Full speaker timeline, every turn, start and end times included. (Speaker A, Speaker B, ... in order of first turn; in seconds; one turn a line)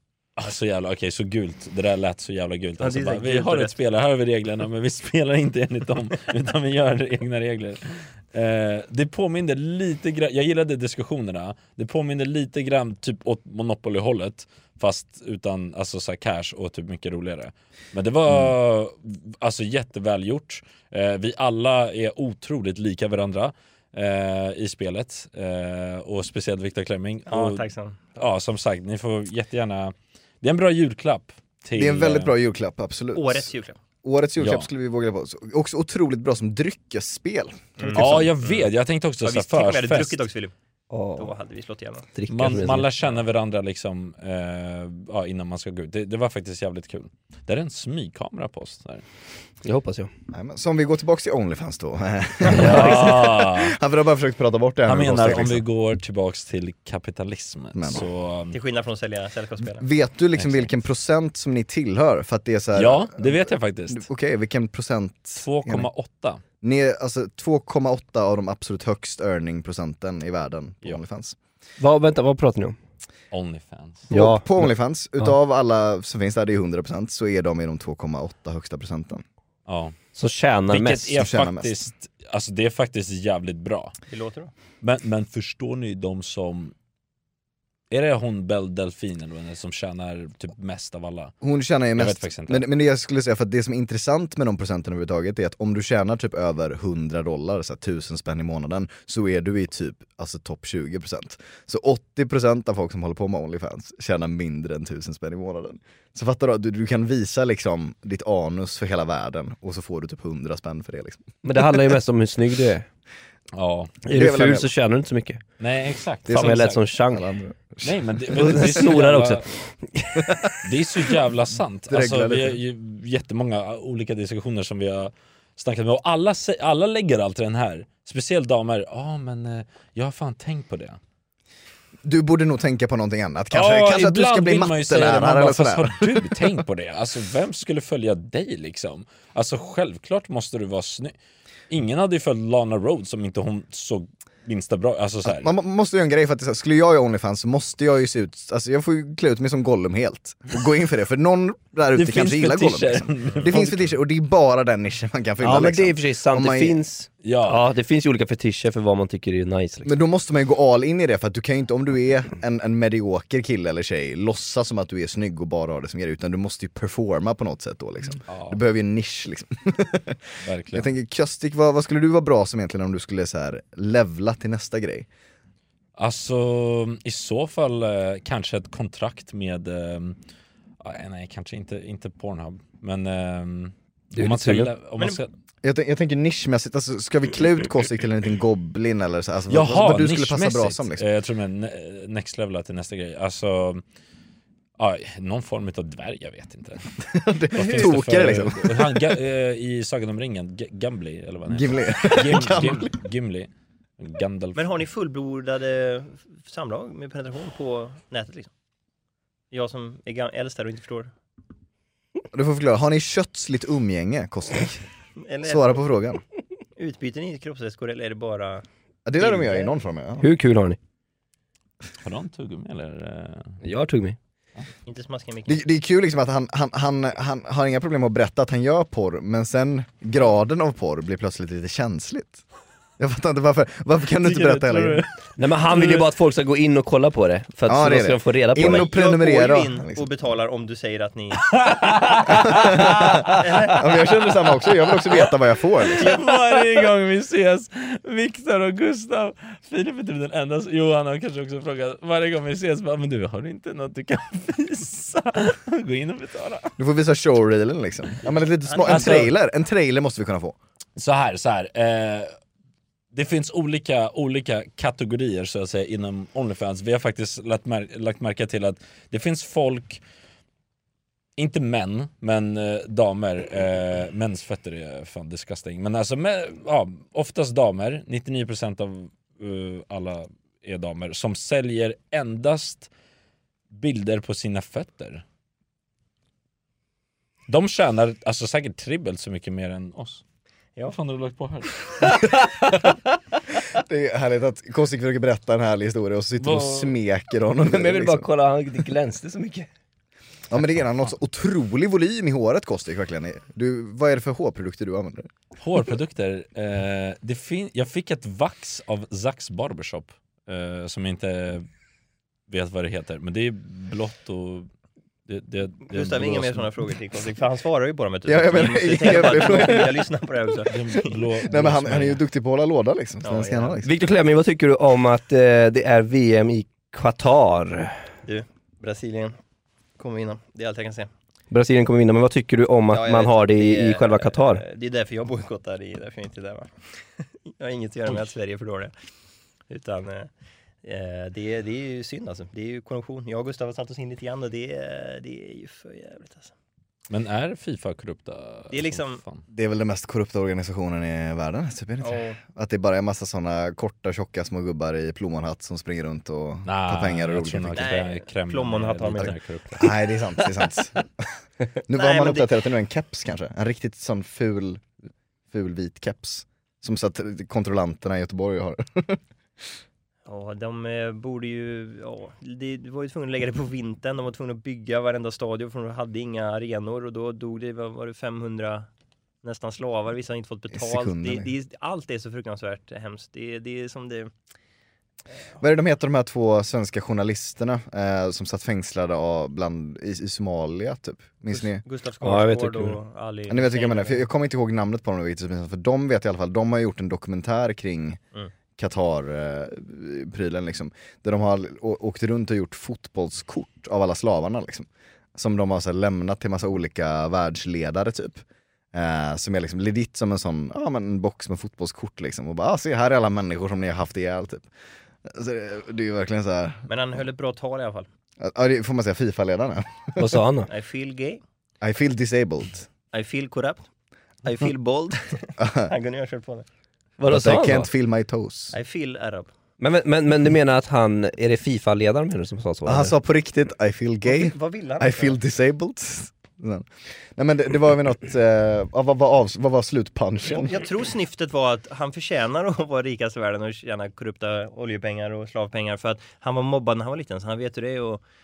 Speaker A: 0.4-27.6
Speaker B: 2.8-3.8
Speaker B: 27.3-28.1
Speaker A: 28.1-32.3
Speaker C: 31.8-33.5
Speaker B: 33.1-33.8
Speaker C: 34.0-38.3
Speaker A: 34.4-34.7
Speaker B: 37.8-38.7
Speaker A: 37.9-40.2
Speaker B: 39.2-40.5
Speaker D: 40.9-41.3
Speaker B: 41.2-42.1
Speaker D: 42.1-42.9
Speaker A: 42.3-49.0
Speaker D: 49.6-50.1
Speaker C: 50.3-55.6
Speaker A: 52.5-53.8
Speaker A: 54.9-58.6
Speaker C: 57.7-58.1
Speaker B: 58.5-59.9
Speaker C: 59.8-65.9
Speaker A: 60.4-60.7
Speaker A: 62.8-64.1
Speaker A: 65.4-66.4
Speaker C: 66.6-71.4
Speaker D: 71.8-72.8
Speaker A: 73.3-74.1
Speaker D: 74.1-74.7
Speaker C: 74.1-79.2
Speaker A: 79.7-80.0
Speaker D: 80.2-81.1
Speaker A: 80.7-84.0
Speaker C: 81.2-81.7
Speaker B: 84.1-84.5
Speaker A: 84.8-86.7
Speaker A: 87.9-91.3
Speaker C: 91.4-111.3
Speaker A: 91.9-92.7
Speaker D: 111.4-112.9
Speaker A: 113.5-114.0
Speaker D: 114.0-115.4
Speaker C: 114.1-114.7
Speaker A: 115.6-116.8
Speaker D: 116.3-117.2
Speaker C: 117.1-117.9
Speaker A: 117.8-119.5
Speaker D: 118.3-120.2
Speaker A: 120.6-131.0
Speaker C: 121.9-122.6
Speaker C: 132.0-136.6
Speaker A: 133.5-141.1
Speaker A: 141.7-145.5
Speaker C: 145.2-156.8
Speaker A: 151.9-153.9
Speaker D: 155.4-159.9
Speaker A: 157.2-157.6
Speaker C: 159.8-170.2
Speaker A: 168.3-168.6
Speaker A: 170.4-170.9
Speaker C: 170.7-175.1
Speaker A: 176.0-180.2
Speaker A: 180.8-185.3
Speaker D: 184.1-184.7
Speaker C: 185.6-191.1
Speaker A: 189.5-193.8
Speaker A: 194.8-196.8
Speaker C: 197.1-199.2
Speaker A: 197.5-204.6
Speaker C: 201.5-202.9
Speaker B: 204.6-208.5
Speaker B: 209.5-211.1
Speaker C: 212.3-214.8
Speaker B: 215.2-215.8
Speaker C: 215.4-216.2
Speaker B: 216.8-218.6
Speaker C: 219.1-220.3
Speaker B: 219.2-219.8
Speaker D: 220.2-220.8
Speaker A: 222.0-223.6
Speaker D: 223.6-224.2
Speaker B: 224.9-225.6
Speaker C: 225.5-232.4
Speaker C: 233.0-235.1
Speaker A: 234.2-235.0
Speaker D: 235.4-238.9
Speaker A: 235.7-236.0
Speaker C: 237.7-240.1
Speaker B: 238.6-241.6
Speaker A: 241.4-243.3
Speaker C: 242.3-246.1
Speaker B: 243.4-243.8
Speaker A: 245.9-256.8
Speaker B: 246.0-246.3
Speaker C: 256.8-260.6
Speaker B: 258.6-259.3
Speaker A: 258.8-259.3
Speaker A: 261.0-262.3
Speaker A: 263.1-270.0
Speaker A: 271.4-282.9
Speaker A: 283.7-285.2
Speaker A: 287.5-290.2
Speaker A: 290.9-292.3
Speaker C: 293.7-298.3
Speaker A: 296.4-296.9
Speaker D: 297.7-299.7
Speaker C: 300.5-305.3
Speaker A: 305.6-311.6
Speaker A: 312.5-314.7
Speaker A: 315.3-316.7
Speaker B: 315.9-321.1
Speaker C: 318.3-320.1
Speaker A: 320.7-322.2
Speaker C: 321.4-323.9
Speaker B: 323.2-323.8
Speaker D: 323.8-328.0
Speaker B: 328.3-329.4
Speaker B: 330.0-331.1
Speaker D: 331.5-334.6
Speaker B: 332.9-338.9
Speaker B: 339.7-340.3
Speaker B: 340.8-346.5
Speaker A: 347.1-349.4
Speaker B: 348.7-349.2
Speaker C: 349.5-358.0
Speaker B: 352.0-352.4
Speaker A: 356.6-360.0
Speaker B: 357.8-359.4
Speaker C: 359.2-361.3
Speaker C: 361.9-364.9
Speaker B: 361.9-362.5
Speaker C: 365.5-369.2
Speaker B: 370.3-378.9
Speaker B: 379.4-384.3
Speaker C: 380.7-381.5
Speaker C: 385.6-391.8
Speaker B: 391.5-394.2
Speaker D: 392.2-393.0
Speaker C: 393.5-398.2
Speaker C: 398.8-408.4
Speaker C: 408.9-414.7
Speaker C: 415.2-416.8
Speaker B: 416.9-418.1
Speaker C: 418.4-420.4
Speaker D: 420.1-420.7
Speaker B: 420.7-421.4
Speaker C: 421.8-422.9
Speaker B: 423.1-423.9
Speaker B: 424.4-426.7
Speaker C: 425.6-425.9
Speaker D: 427.2-427.9
Speaker C: 427.3-428.8
Speaker B: 428.7-429.5
Speaker D: 429.8-433.1
Speaker C: 432.9-440.7
Speaker B: 434.2-435.4
Speaker B: 440.5-448.2